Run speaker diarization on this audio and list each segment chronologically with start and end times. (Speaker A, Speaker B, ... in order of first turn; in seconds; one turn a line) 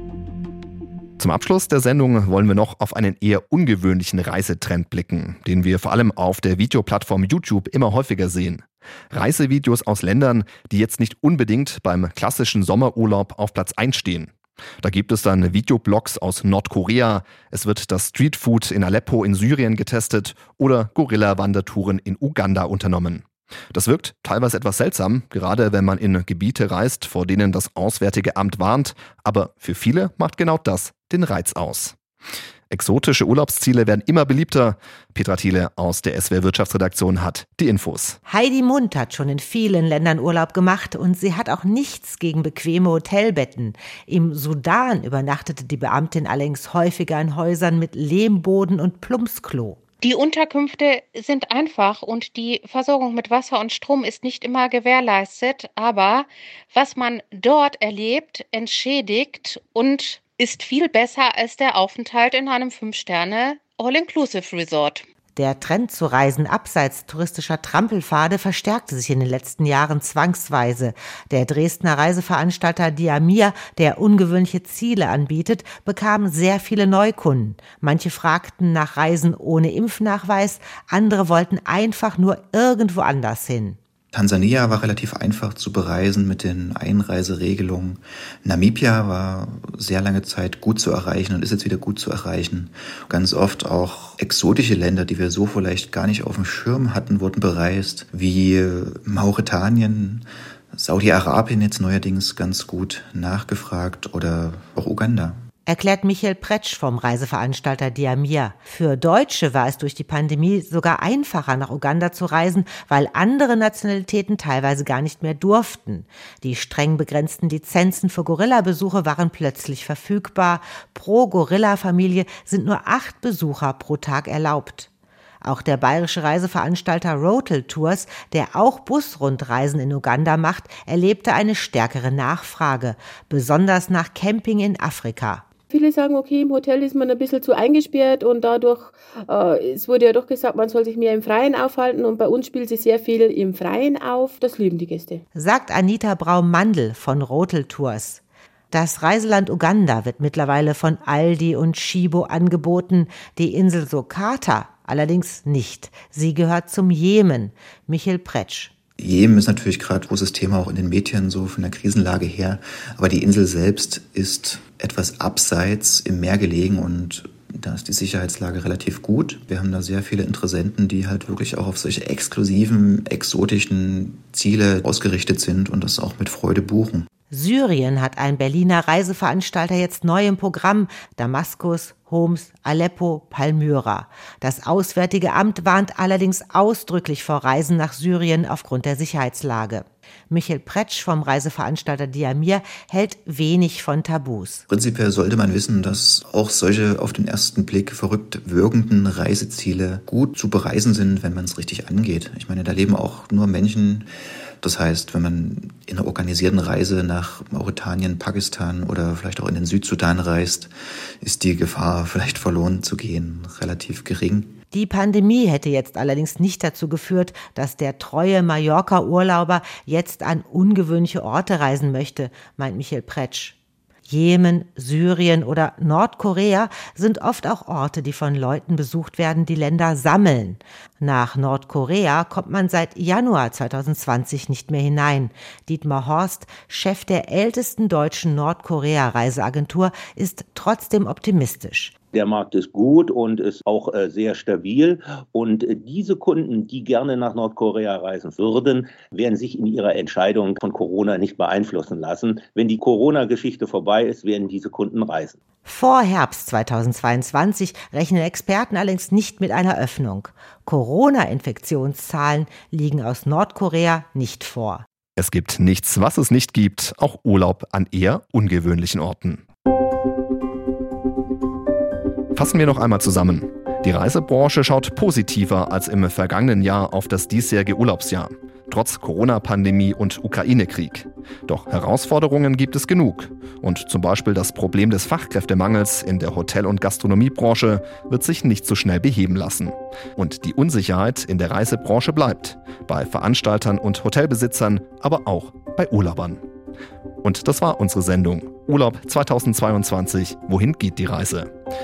Speaker A: 1.2-32.0
Speaker A: 32.7-38.2
Speaker B: 38.3-49.8
Speaker C: 50.0-65.1
Speaker B: 65.4-83.8
Speaker D: 84.1-105.4
Speaker B: 105.7-124.9
Speaker B: 125.4-135.4
Speaker E: 135.7-145.2
Speaker B: 145.3-158.7
Speaker D: 159.0-177.1
Speaker B: 177.3-194.6
Speaker D: 194.7-214.6
Speaker B: 214.7-223.6
Speaker B: 224.1-241.9
Speaker F: 242.1-255.4
Speaker B: 255.7-264.9
Speaker A: 265.2-269.4
Speaker A: 272.4-296.4
Speaker A: 297.2-301.5